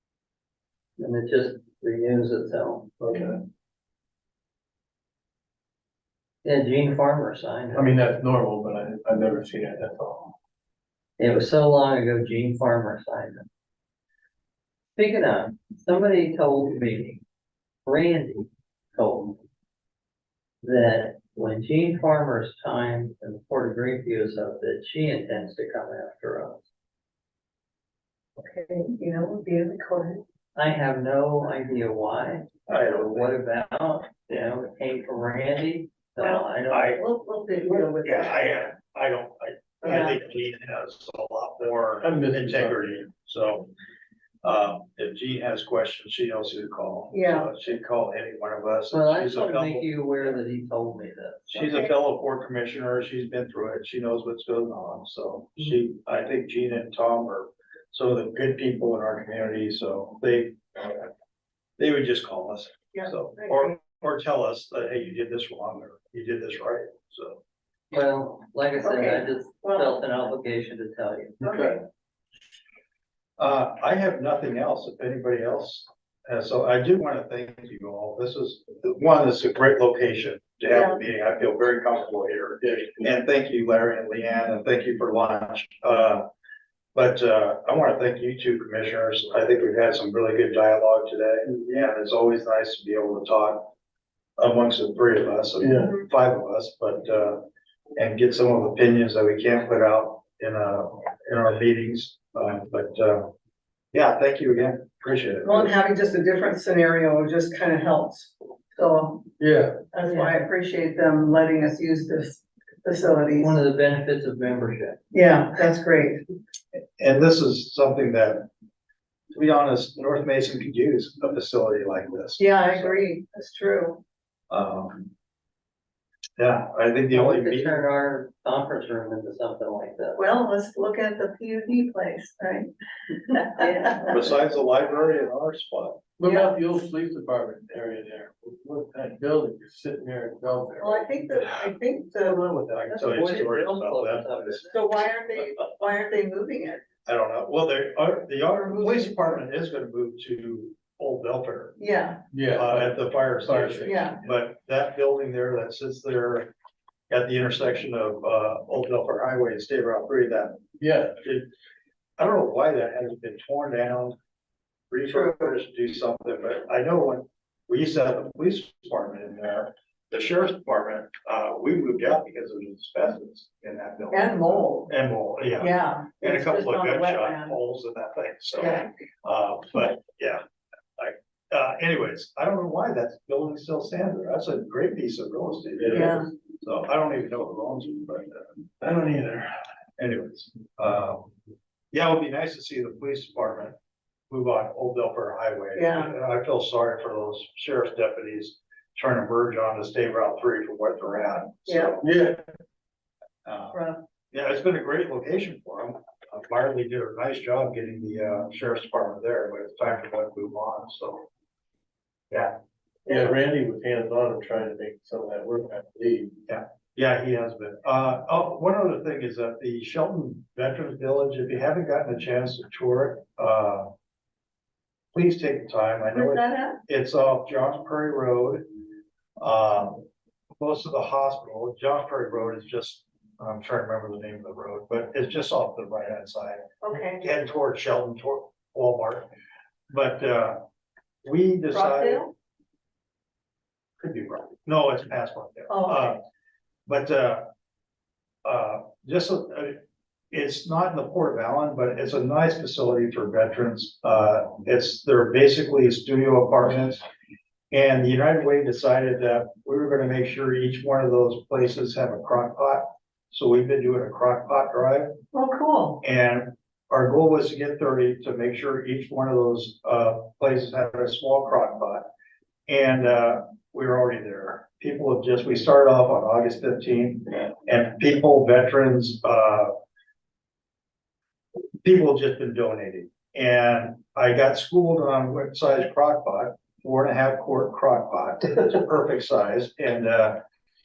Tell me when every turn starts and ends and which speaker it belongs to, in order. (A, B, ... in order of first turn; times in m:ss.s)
0:01.0-0:02.9 A
0:03.0-0:03.4 B
0:06.4-0:08.0 A
0:07.8-0:10.3 B
0:11.2-0:13.5 A
0:15.0-0:17.2 A
0:17.8-0:19.4 A
0:20.6-0:26.6 A
0:28.4-0:30.2 C
0:30.6-0:37.0 A
0:32.7-0:33.4 D
0:36.2-0:38.4 C
0:36.7-0:37.0 D
0:37.6-0:43.7 D
0:39.8-0:40.2 C
0:42.0-0:42.9 B
0:44.4-0:50.4 D
0:47.1-0:47.5 C
0:48.9-0:51.7 A
0:51.5-1:01.1 D
1:01.8-1:07.4 D
1:02.9-1:03.7 C
1:07.9-1:11.4 A
1:08.8-1:10.0 C
1:11.4-1:11.8 C
1:11.4-1:11.8 B
1:13.4-1:26.3 D
1:20.7-1:21.0 C
1:22.6-1:23.0 B
1:26.9-1:33.7 D
1:31.5-1:31.8 B
1:34.4-1:43.3 D
1:35.6-1:36.0 B
1:43.9-1:45.7 D
1:45.4-1:49.3 C
1:49.4-1:49.8 B
1:49.9-1:53.6 C
1:50.0-1:50.4 A
1:53.2-1:55.0 A
1:55.1-1:56.2 C
1:57.0-1:58.5 D
1:59.3-2:03.0 D
2:02.4-2:04.0 C
2:04.5-2:05.1 D
2:06.4-2:07.8 D
2:07.1-2:10.2 A
2:10.2-2:14.2 C
2:13.6-2:14.1 A
2:14.0-2:16.0 D
2:16.2-2:21.3 B
2:16.2-2:16.6 C
2:20.8-2:22.4 C
2:22.3-2:24.7 D
2:22.9-2:24.8 A
2:24.7-2:26.8 C
2:27.0-2:31.8 D
2:28.7-2:29.1 C
2:31.8-2:32.2 C
2:32.3-2:34.1 B
2:32.5-2:36.5 D
2:33.8-2:34.2 C
2:37.1-2:40.6 D
2:40.8-2:41.2 B
2:41.2-2:41.5 D
2:42.2-2:44.2 D
2:44.9-3:00.4 D
2:54.1-2:54.9 C
2:55.6-2:57.6 C
3:01.0-3:08.6 D
3:05.8-3:06.1 B
3:05.9-3:06.3 C
3:08.8-3:09.5 B
3:10.0-3:11.3 D
3:11.9-3:13.8 D
3:14.3-3:22.1 D
3:15.8-3:16.1 C
3:21.7-3:22.0 C
3:22.0-3:22.4 B
3:23.4-3:23.8 D
3:23.7-3:24.0 C
3:24.3-3:31.2 D
3:32.3-3:32.6 D
3:33.1-3:36.4 B
3:36.5-3:43.9 D
3:45.1-3:48.6 D
3:46.1-3:46.8 C
3:49.4-3:50.1 D
3:50.6-3:56.7 D
3:56.8-3:57.2 C
3:57.2-3:59.3 D
3:59.9-4:00.6 D
4:01.2-4:02.3 D
4:01.7-4:02.3 C
4:04.0-4:06.2 D
4:05.7-4:06.1 C
4:06.9-4:07.5 D
4:08.4-4:17.0 D
4:17.7-4:25.2 D
4:25.3-4:26.0 C
4:26.0-4:32.1 D
4:32.7-4:39.7 D
4:41.8-4:50.4 D